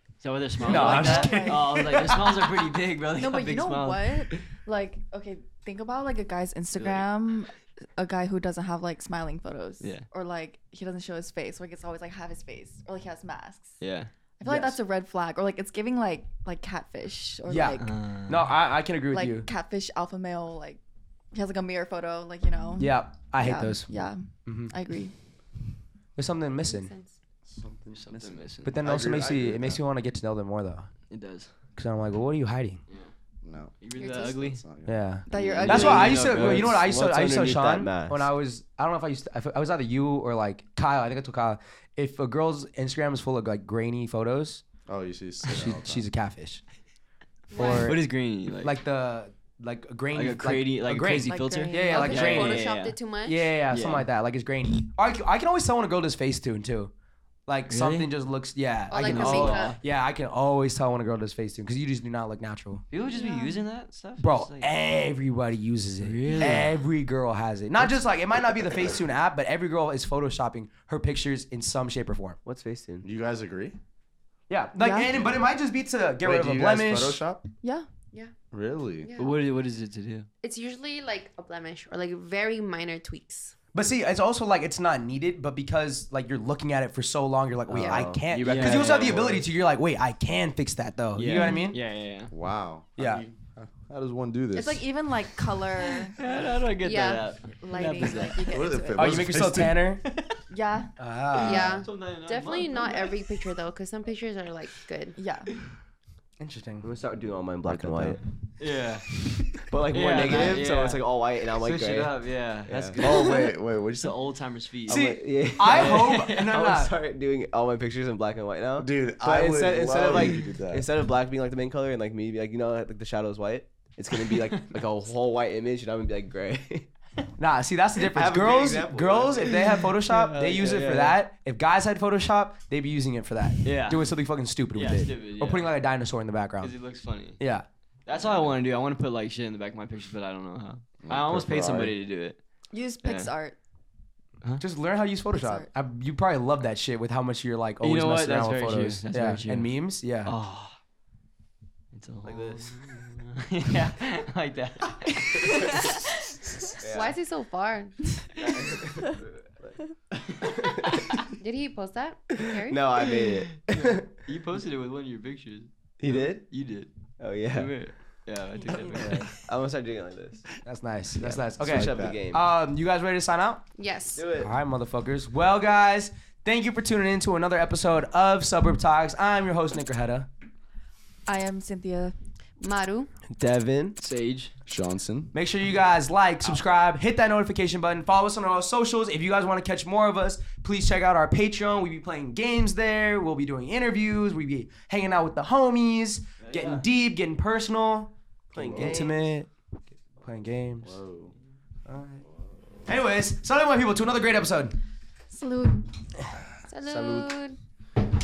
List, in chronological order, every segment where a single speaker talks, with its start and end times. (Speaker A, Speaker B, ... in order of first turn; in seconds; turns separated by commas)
Speaker A: 0.2-4.4, Speaker B: 0.6-2.5, Speaker C: 0.7-1.8, Speaker C: 3.1-13.8, Speaker A: 6.8-7.0, Speaker A: 13.8-14.1, Speaker C: 14.4-17.9, Speaker B: 14.4-14.8, Speaker B: 17.5-19.5, Speaker A: 17.8-18.4, Speaker C: 19.1-20.8, Speaker C: 21.3-25.1, Speaker B: 22.8-24.7, Speaker B: 26.1-26.9, Speaker D: 26.6-27.1, Speaker E: 27.4-29.8, Speaker A: 27.9-28.8, Speaker B: 28.6-30.9, Speaker A: 31.1-31.5, Speaker B: 31.8-32.8, Speaker E: 33.4-34.9, Speaker A: 33.8-34.6, Speaker D: 34.0-34.4, Speaker B: 34.8-44.6, Speaker C: 35.3-36.3, Speaker A: 35.3-36.8, Speaker F: 35.3-38.3, Speaker E: 44.9-46.0, Speaker B: 45.5-46.6, Speaker D: 47.5-47.9, Speaker B: 47.5-48.0, Speaker A: 47.8-48.7, Speaker B: 48.6-52.7, Speaker A: 50.1-53.0, Speaker C: 51.3-52.1, Speaker D: 51.8-53.4, Speaker B: 53.2-56.9, Speaker A: 53.7-54.1, Speaker B: 57.5-62.8, Speaker A: 57.7-58.1, Speaker D: 58.9-59.8, Speaker A: 58.9-59.8, Speaker A: 62.9-64.7, Speaker C: 63.1-63.6, Speaker B: 64.2-72.4, Speaker A: 66.0-66.7, Speaker F: 72.4-73.0, Speaker E: 73.0-73.8, Speaker B: 74.5-77.2, Speaker C: 74.8-75.3, Speaker E: 76.2-77.4, Speaker C: 77.6-77.9, Speaker E: 78.5-79.1, Speaker D: 79.0-79.3, Speaker A: 79.2-80.3, Speaker D: 80.4-83.5, Speaker B: 83.7-91.8, Speaker F: 87.7-88.9, Speaker E: 87.8-89.5, Speaker A: 88.4-89.2, Speaker A: 91.2-92.3, Speaker C: 91.3-91.7, Speaker E: 92.3-94.8, Speaker B: 93.0-93.2, Speaker C: 94.5-96.2, Speaker A: 96.2-98.5, Speaker D: 96.8-97.3, Speaker C: 97.6-99.2, Speaker E: 98.5-99.8, Speaker B: 98.9-100.0, Speaker A: 100.0-100.3, Speaker C: 100.5-100.9, Speaker B: 101.0-101.8, Speaker D: 101.3-105.2, Speaker A: 101.4-103.2, Speaker C: 105.2-105.5, Speaker B: 106.4-106.9, Speaker F: 106.8-108.2, Speaker E: 107.7-108.2, Speaker A: 108.6-116.6, Speaker F: 109.7-113.2, Speaker E: 113.0-114.2, Speaker F: 114.9-126.9, Speaker B: 114.9-116.9, Speaker E: 118.8-120.8, Speaker A: 124.3-124.8, Speaker B: 127.4-136.7, Speaker F: 128.0-129.5, Speaker A: 130.0-131.2, Speaker F: 130.5-130.9, Speaker A: 133.6-134.1, Speaker A: 134.7-135.8, Speaker A: 136.6-137.4, Speaker B: 137.4-137.7, Speaker A: 138.1-142.4, Speaker E: 141.0-141.9, Speaker C: 142.7-143.6, Speaker A: 143.0-143.3, Speaker B: 144.6-150.3, Speaker C: 145.3-145.7, Speaker A: 147.8-150.7, Speaker A: 151.9-156.0, Speaker F: 152.2-152.9, Speaker F: 155.4-155.9, Speaker F: 156.8-157.2, Speaker D: 156.8-158.2, Speaker F: 158.4-159.8, Speaker F: 160.3-161.3, Speaker D: 161.4-162.8, Speaker F: 162.3-164.1, Speaker A: 163.7-169.3, Speaker F: 166.0-166.5, Speaker F: 167.2-167.8, Speaker B: 168.9-169.3, Speaker F: 169.3-170.6, Speaker B: 170.6-173.7, Speaker F: 171.2-172.5, Speaker E: 171.6-172.2, Speaker D: 173.8-174.3, Speaker F: 174.1-174.5, Speaker B: 174.3-180.3, Speaker C: 181.3-182.1, Speaker D: 182.6-183.1, Speaker F: 183.3-184.0, Speaker A: 184.0-184.5, Speaker E: 184.7-185.3, Speaker B: 185.3-199.5, Speaker A: 196.4-196.8, Speaker F: 198.5-199.3, Speaker B: 200.2-200.9, Speaker E: 200.8-201.3, Speaker B: 201.9-202.2, Speaker B: 202.8-204.7, Speaker C: 205.3-205.8, Speaker D: 206.7-207.6, Speaker F: 206.9-207.3